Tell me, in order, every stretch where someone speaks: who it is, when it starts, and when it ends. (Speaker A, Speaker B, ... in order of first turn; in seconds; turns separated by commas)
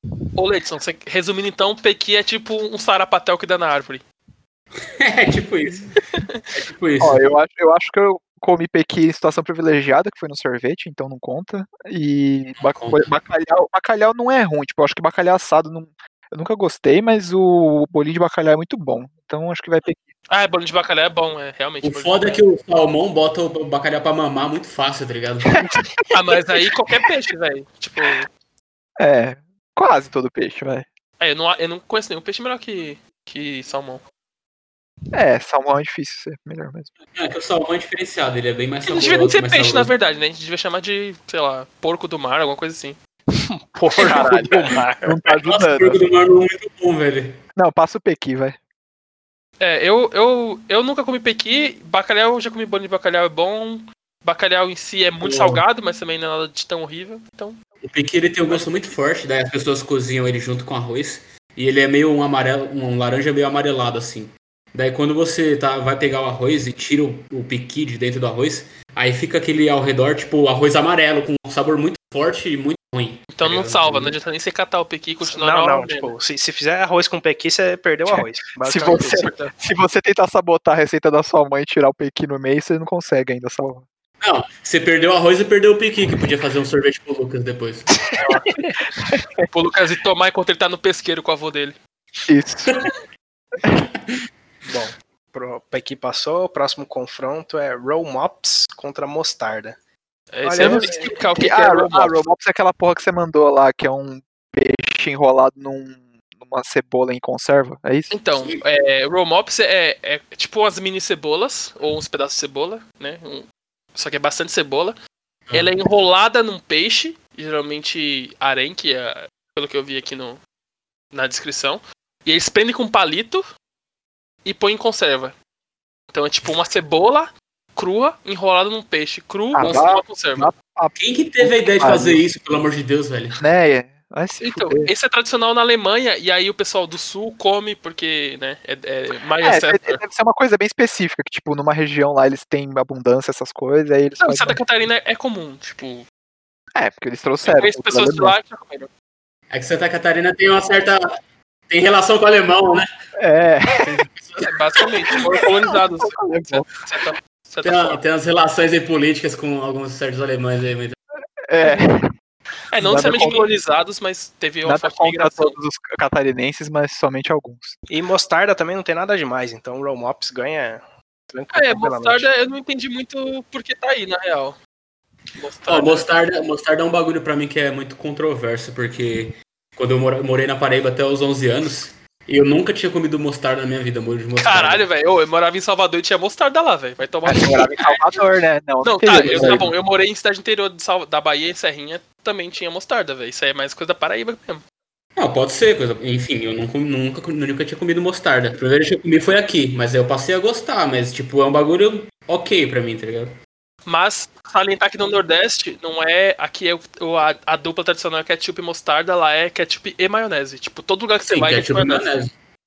Speaker A: 0.3-4.0, Speaker B: 4.8-6.0, Speaker A: 6.1-6.4, Speaker B: 6.5-7.3, Speaker C: 7.0-20.0, Speaker B: 12.6-13.1, Speaker A: 20.3-22.4, Speaker B: 21.8-25.7, Speaker A: 26.1-28.3, Speaker C: 29.0-30.9, Speaker A: 31.2-34.0, Speaker C: 35.1-36.9, Speaker B: 37.1-39.9, Speaker A: 38.9-43.0, Speaker D: 43.4-45.2, Speaker C: 43.9-46.0, Speaker B: 45.4-47.4, Speaker C: 47.5-48.6, Speaker A: 49.6-57.6, Speaker B: 55.2-55.6, Speaker B: 57.8-74.2, Speaker A: 73.3-76.1, Speaker D: 75.2-79.3, Speaker C: 78.1-83.8, Speaker A: 79.0-79.5, Speaker B: 84.2-88.1, Speaker A: 89.5-91.8, Speaker C: 92.3-92.7, Speaker D: 94.6-99.8, Speaker A: 100.3-102.2, Speaker D: 100.4-101.3, Speaker C: 100.6-108.1, Speaker A: 108.1-115.0, Speaker A: 115.5-120.4, Speaker A: 121.1-123.4, Speaker A: 124.4-125.3, Speaker A: 126.1-130.5, Speaker C: 129.5-132.2, Speaker B: 129.6-130.0, Speaker B: 130.9-133.4, Speaker C: 133.4-134.9, Speaker A: 134.4-140.0, Speaker C: 139.4-144.6, Speaker A: 144.2-146.0, Speaker C: 146.7-148.3, Speaker A: 147.4-148.9, Speaker B: 149.5-151.1, Speaker B: 151.7-152.8, Speaker C: 153.2-154.1, Speaker B: 154.1-154.5, Speaker A: 154.4-158.0, Speaker C: 155.7-156.7, Speaker B: 157.6-160.9, Speaker C: 161.5-162.1, Speaker A: 162.7-165.6, Speaker C: 162.8-163.5, Speaker C: 164.6-167.8, Speaker D: 167.9-172.3, Speaker A: 171.5-174.6, Speaker A: 175.3-176.1, Speaker B: 175.7-184.8, Speaker A: 184.4-188.1, Speaker C: 187.2-189.7, Speaker A: 188.8-194.6, Speaker B: 189.2-189.7, Speaker B: 195.2-203.3, Speaker A: 203.8-212.2, Speaker B: 211.3-212.3